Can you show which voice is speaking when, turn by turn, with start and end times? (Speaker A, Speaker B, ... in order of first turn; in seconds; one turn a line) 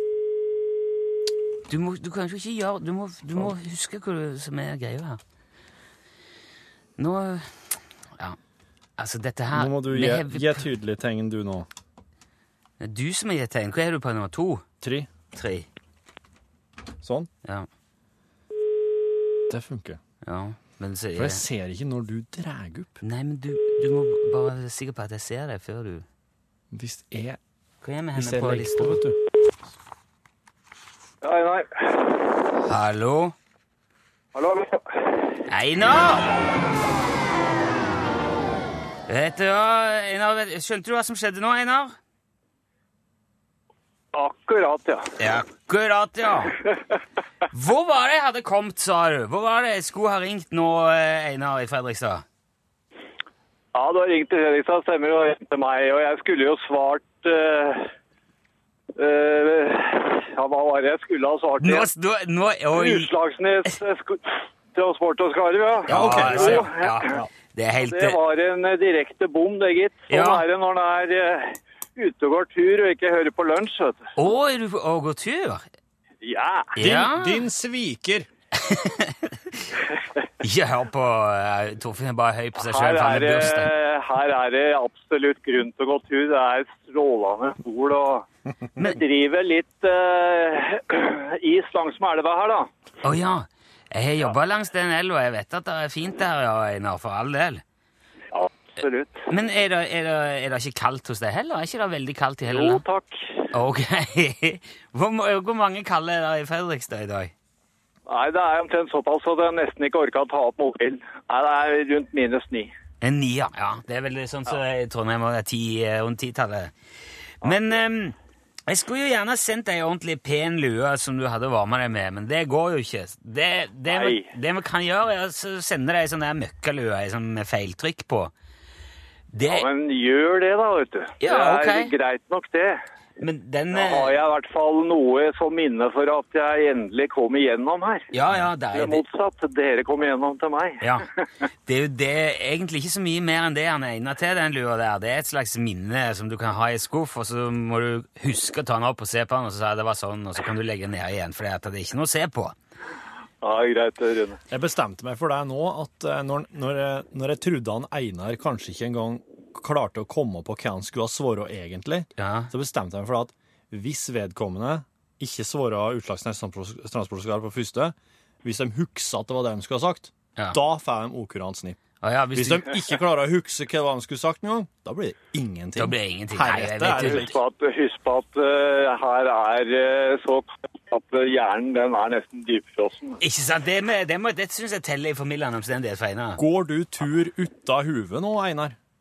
Speaker A: 1.7-5.2
Speaker A: 7.0-7.5
Speaker A: 9.0-10.7
Speaker B: 9.5-11.7
Speaker A: 12.8-14.6
Speaker B: 14.8-15.1
Speaker A: 15.3-15.7
Speaker B: 17.0-17.3
Speaker B: 19.5-20.0
Speaker A: 20.2-21.4
Speaker B: 21.1-23.0
Speaker A: 23.0-26.1
Speaker B: 26.7-27.4
Speaker A: 27.8-29.0
Speaker B: 28.1-29.2
Speaker C: 31.2-32.2
Speaker A: 32.6-33.3
Speaker C: 34.3-35.2
Speaker A: 35.5-36.3
Speaker A: 39.1-41.9
Speaker C: 44.1-45.1
Speaker A: 45.2-46.5
Speaker C: 46.5-46.8
Speaker A: 47.5-52.2
Speaker C: 53.7-57.9
Speaker C: 59.0-61.9
Speaker A: 61.6-63.1
Speaker C: 62.7-67.0
Speaker B: 65.9-67.3
Speaker A: 65.9-68.2
Speaker C: 67.8-74.1
Speaker A: 70.1-70.4
Speaker A: 74.2-75.6
Speaker C: 76.2-76.7
Speaker A: 76.8-77.4
Speaker B: 76.8-78.3
Speaker A: 78.5-79.7
Speaker A: 80.4-83.7
Speaker C: 82.6-88.2
Speaker C: 88.8-92.7
Speaker A: 93.0-97.6
Speaker C: 98.3-99.2
Speaker A: 99.3-102.8
Speaker C: 102.5-103.5
Speaker A: 103.5-107.3
Speaker C: 108.1-112.7
Speaker A: 113.0-116.7
Speaker A: 117.4-118.2
Speaker C: 117.4-117.8
Speaker A: 118.7-128.3
Speaker C: 123.9-124.3
Speaker A: 129.3-129.7
Speaker C: 129.4-132.8
Speaker A: 131.2-131.9
Speaker A: 133.2-134.1
Speaker C: 133.7-138.1
Speaker A: 138.1-139.0
Speaker C: 138.7-141.0
Speaker A: 140.8-141.1
Speaker A: 141.7-152.5
Speaker C: 153.4-154.4
Speaker B: 154.5-171.8
Speaker A: 162.2-162.5
Speaker A: 172.0-172.8
Speaker B: 172.3-177.3
Speaker A: 175.8-177.3
Speaker C: 176.9-183.2
Speaker A: 183.2-186.4
Speaker B: 186.4-188.8